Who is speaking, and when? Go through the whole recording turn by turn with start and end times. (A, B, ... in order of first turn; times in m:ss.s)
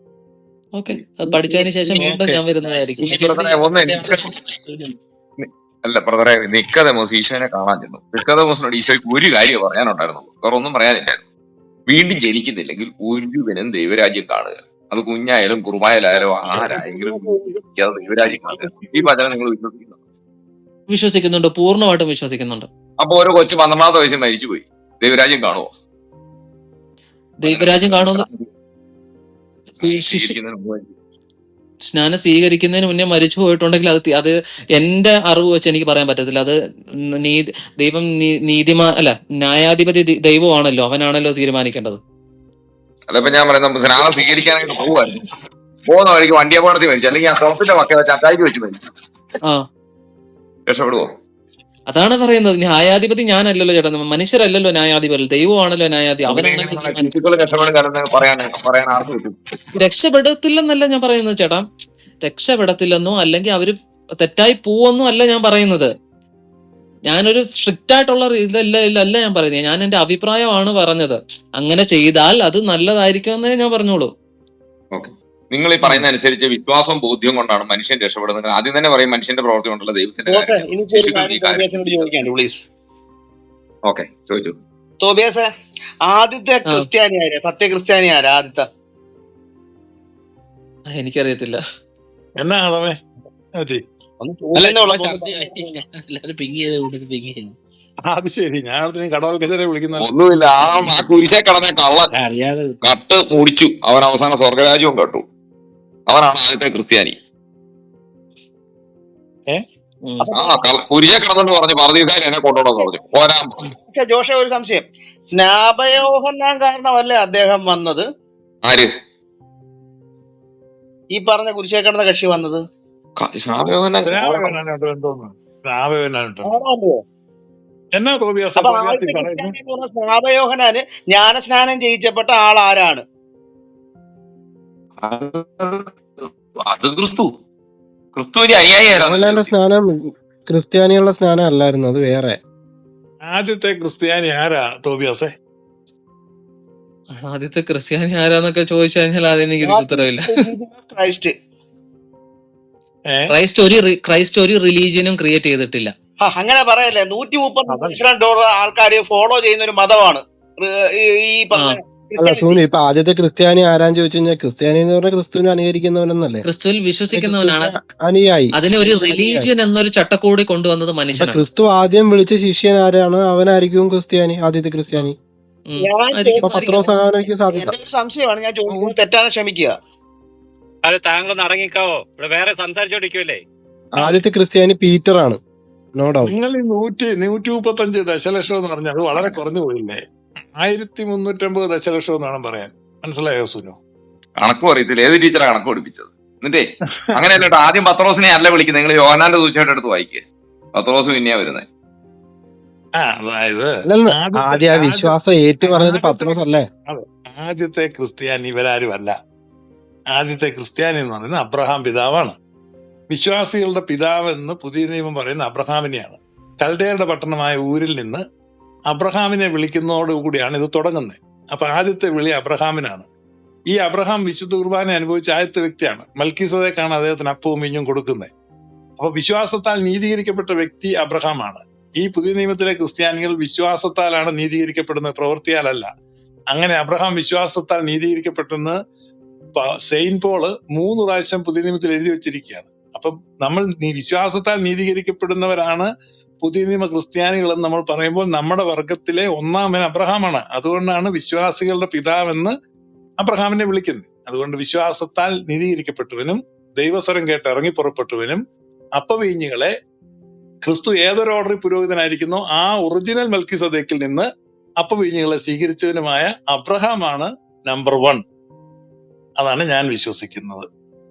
0:00.8-0:03.2 A
0:01.5-0:05.0 B
0:03.0-0:04.3 C
0:05.4-0:11.2 C
0:11.9-0:20.0 C
0:20.9-0:22.7 A
0:23.0-0:25.7 C
0:27.4-0:28.2 A
0:27.4-0:28.5 C
0:29.8-0:30.9 C
0:29.8-0:30.3 A
0:31.9-0:36.6 A
0:37.2-0:42.0 A
0:43.1-0:45.2 C
0:45.9-0:48.8 C
0:50.7-0:51.1 C
0:51.9-0:57.1 A
0:56.2-0:59.4 C
0:59.8-1:01.7 A
1:02.2-1:05.9 A
1:07.1-1:14.1 A
1:14.9-1:22.1 C
1:20.3-1:22.6 D
1:23.9-1:24.6 C
1:25.0-1:25.4 D
1:26.1-1:28.6 D
1:30.9-1:31.6 A
1:32.4-1:33.0 E
1:34.2-1:35.7 D
1:34.5-1:37.6 B
1:38.1-1:40.1 E
1:40.0-1:42.1 C
1:42.1-1:42.8 B
1:42.8-1:45.2 C
1:46.1-1:47.2 C
1:50.0-1:50.3 A
1:50.3-1:53.6 C
1:50.4-1:50.7 D
1:53.9-1:58.0 D
1:58.6-1:58.9 C
2:01.1-2:02.6 D
2:03.2-2:04.5 C
2:04.0-2:06.6 E
2:06.4-2:07.0 D
2:07.9-2:09.6 E
2:08.6-2:13.0 D
2:15.0-2:17.3 C
2:18.1-2:19.5 C
2:18.9-2:22.4 F
2:23.3-2:25.3 E
2:27.2-2:30.2 A
2:29.6-2:31.3 D
2:33.1-2:33.3 E
2:33.3-2:35.9 A
2:36.2-2:42.6 D
2:37.7-2:38.0 E
2:42.2-2:46.4 F
2:46.4-2:47.8 A
2:47.1-2:49.5 F
2:48.5-2:51.4 A
2:51.2-2:55.2 F
2:55.7-2:56.9 A
2:55.8-2:56.7 D
2:56.4-2:57.8 F
2:57.5-2:59.7 D
2:58.7-2:59.0 E
3:00.8-3:03.4 G
3:03.9-3:04.2 E
3:04.0-3:05.4 F
3:06.0-3:06.4 F
3:06.2-3:10.0 E
3:10.6-3:13.8 E
3:14.4-3:21.7 C
3:17.1-3:17.4 E
3:23.0-3:29.1 E
3:23.8-3:26.7 F
3:30.1-3:32.4 E
3:33.1-3:38.2 E
3:38.9-3:43.1 E
3:43.7-3:48.3 E
3:49.0-3:55.9 E
3:56.5-3:58.8 E
3:59.6-4:05.9 E
4:06.4-4:12.5 E
4:13.2-4:18.4 E
4:19.0-4:19.7 E
4:20.6-4:24.3 E
4:24.8-4:28.2 E
4:29.4-4:30.7 E